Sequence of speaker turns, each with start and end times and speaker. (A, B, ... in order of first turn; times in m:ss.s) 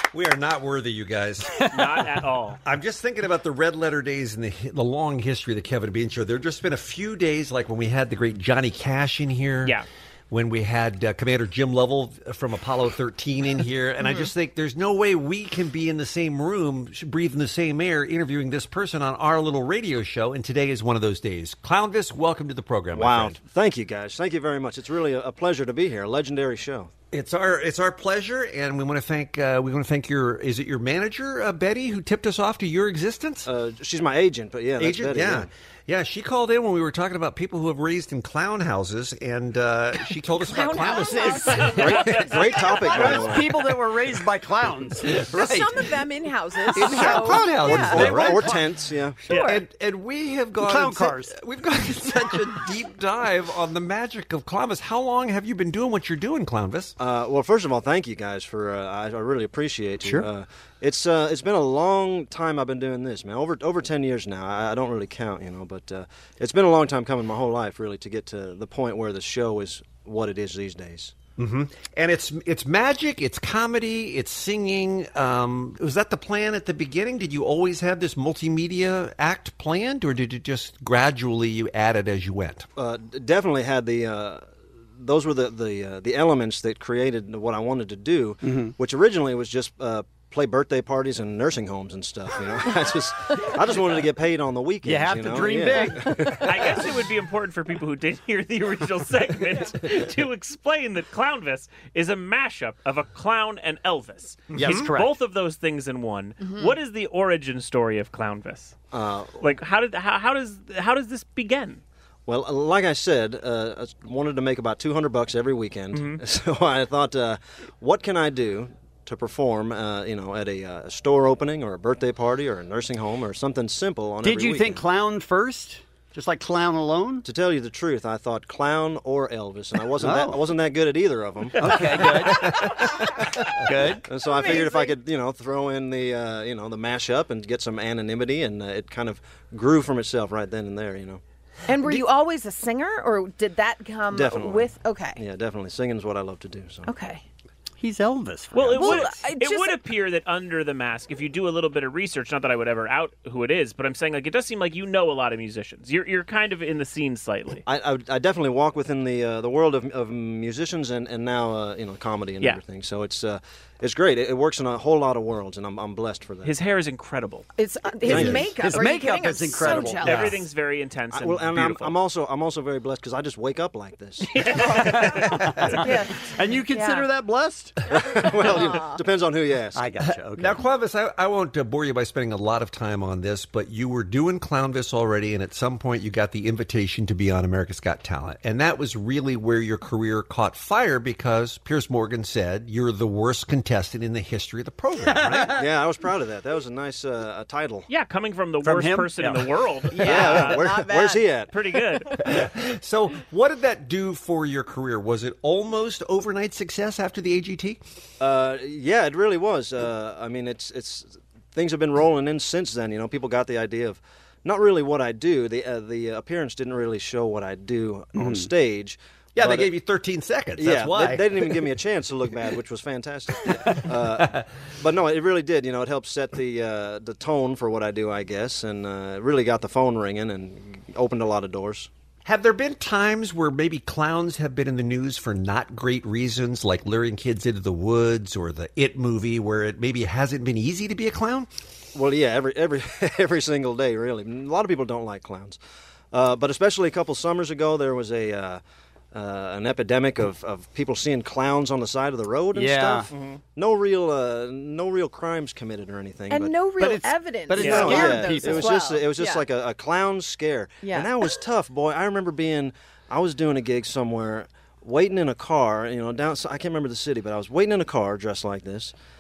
0:00.1-0:01.6 A
0:01.7-0:02.6 B
0:02.6-0:09.8 A
0:10.3-0:23.4 A
0:22.9-0:26.9 C
0:27.1-0:33.5 A
0:33.4-0:35.5 C
0:34.8-0:42.1 A
0:40.5-0:42.1 D
0:41.6-0:42.2 B
0:41.7-0:43.6 C
0:42.8-0:45.2 E
0:45.2-0:45.9 A
0:45.3-0:48.3 D
0:46.7-0:48.7 A
0:46.8-0:48.6 E
0:47.6-0:49.2 C
0:49.3-0:57.0 A
0:49.3-0:49.6 D
0:50.6-0:51.3 E
0:57.0-1:11.2 C
1:11.4-1:22.7 A
1:22.8-1:24.5 C
1:25.0-1:36.8 C
1:28.4-1:28.7 E
1:34.8-1:36.3 E
1:36.4-1:48.8 B
1:44.6-1:44.8 A
1:44.6-1:45.2 E
1:46.4-1:46.7 D
1:48.9-1:49.5 C
1:49.4-1:51.8 B
1:52.3-2:04.9 C
1:55.9-1:56.2 B
2:04.2-2:07.2 E
2:07.2-2:12.0 C
2:10.0-2:10.5 E
2:11.6-2:12.6 E
2:13.6-2:14.0 E
2:14.0-2:21.2 C
2:14.3-2:15.0 D
2:21.7-2:25.2 D
2:24.1-2:26.9 C
2:26.8-2:27.2 D
2:27.8-2:29.2 E
2:28.5-2:37.6 B
2:28.8-2:29.8 D
2:37.7-2:46.5 C
2:46.4-2:47.5 B
2:47.6-2:50.2 D
2:48.0-2:48.5 C
2:48.0-2:50.4 E
2:49.7-2:52.0 B
2:51.1-2:54.9 C
2:54.3-2:55.8 B
2:54.6-2:54.9 D
2:54.8-2:57.8 E
2:55.8-2:57.1 D
2:57.9-2:59.8 C
2:58.2-2:59.0 D
2:59.7-3:00.6 E
3:00.1-3:15.6 A
3:15.5-3:17.9 C
3:17.9-3:20.8 B
3:18.6-3:20.3 E
3:19.9-3:21.3 D
3:20.0-3:21.5 C
3:21.5-3:22.1 B
3:22.2-3:27.8 A
3:28.2-3:39.7 C
3:38.2-3:38.5 E
3:39.4-3:41.5 A
3:40.6-3:51.9 C
3:52.2-4:01.5 A
4:02.0-4:05.6 C
4:06.1-4:08.6 C
4:09.1-4:16.6 C
4:12.5-4:13.1 E
4:16.3-4:19.4 D
4:16.8-4:18.9 E
4:17.6-4:18.0 B
4:17.6-4:28.9 C
4:20.8-4:21.1 D